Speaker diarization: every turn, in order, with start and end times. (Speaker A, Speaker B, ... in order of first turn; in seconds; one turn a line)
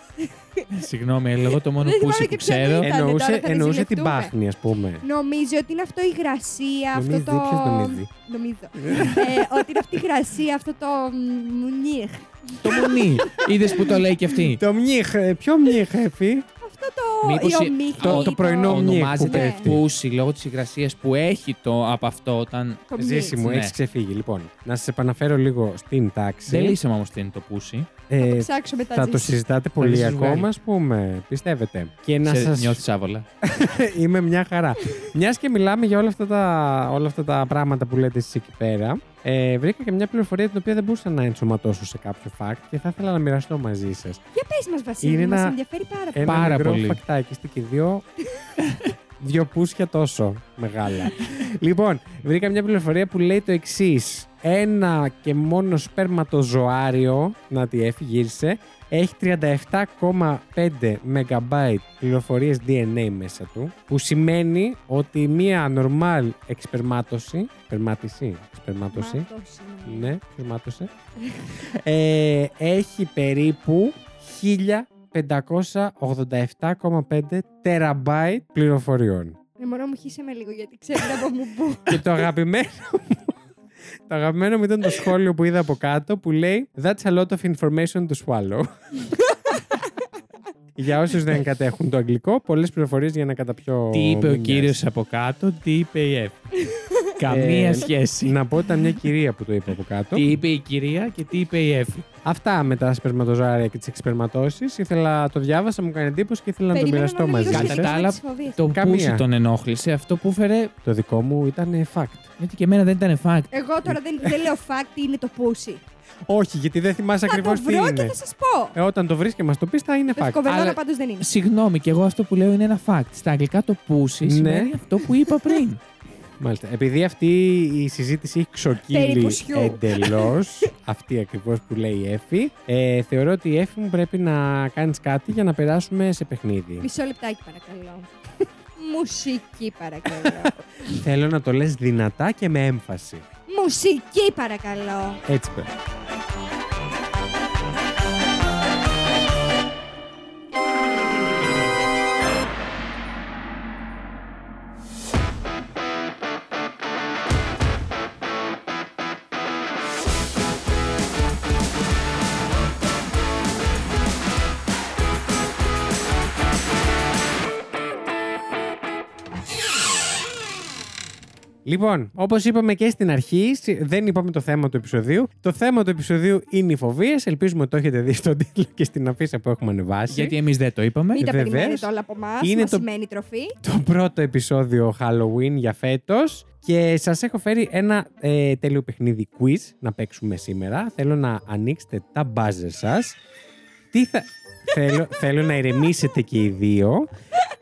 Speaker A: 0.2-0.7
Speaker B: 0.7-2.9
Speaker A: 1.8-4.3
Speaker C: 2.8-5.0
Speaker A: 5.0-13.5
Speaker C: 6.9-8.1
Speaker C: 8.8-9.3
Speaker B: 12.6-14.6
Speaker C: 14.3-16.4
Speaker A: 16.6-19.7
Speaker B: 17.2-23.7
Speaker C: 18.0-19.8
Speaker A: 22.9-23.4
Speaker C: 23.0-26.8
Speaker B: 26.5-27.9
Speaker C: 28.1-32.8
Speaker A: 28.2-29.4
Speaker B: 29.8-30.5
Speaker B: 32.2-33.2
Speaker C: 33.4-44.2
Speaker A: 44.3-46.5
Speaker C: 45.0-45.6
Speaker C: 46.1-48.0
Speaker B: 46.2-47.0
Speaker C: 49.2-69.3
Speaker A: 68.9-70.1
Speaker C: 69.8-70.9
Speaker A: 71.2-71.5
Speaker C: 71.5-79.4
Speaker A: 79.6-82.2
Speaker C: 81.9-83.4
Speaker C: 84.1-88.7
Speaker A: 89.2-89.8
Speaker C: 90.8-94.8
Speaker B: 93.9-96.5
Speaker A: 96.5-97.1
Speaker B: 97.2-98.4
Speaker C: 97.2-100.2
Speaker B: 100.1-102.1
Speaker C: 102.2-108.0
Speaker A: 106.7-108.6
Speaker B: 107.4-110.7
Speaker C: 108.7-109.2
Speaker C: 110.8-112.3
Speaker B: 112.4-113.5
Speaker A: 113.5-115.8
Speaker C: 116.3-118.2
Speaker A: 117.3-118.8
Speaker C: 118.7-120.4
Speaker A: 120.1-121.3
Speaker B: 120.5-125.8
Speaker C: 124.2-124.8
Speaker C: 126.4-136.9
Speaker A: 128.9-130.4
Speaker A: 136.8-140.7
Speaker C: 140.2-143.2
Speaker A: 143.5-145.2
Speaker C: 145.2-145.7
Speaker C: 171.6-180.3
Speaker B: 180.1-181.2
Speaker A: 181.2-183.6
Speaker C: 181.2-181.9
Speaker C: 182.4-182.8
Speaker C: 183.6-193.2
Speaker C: 193.9-197.1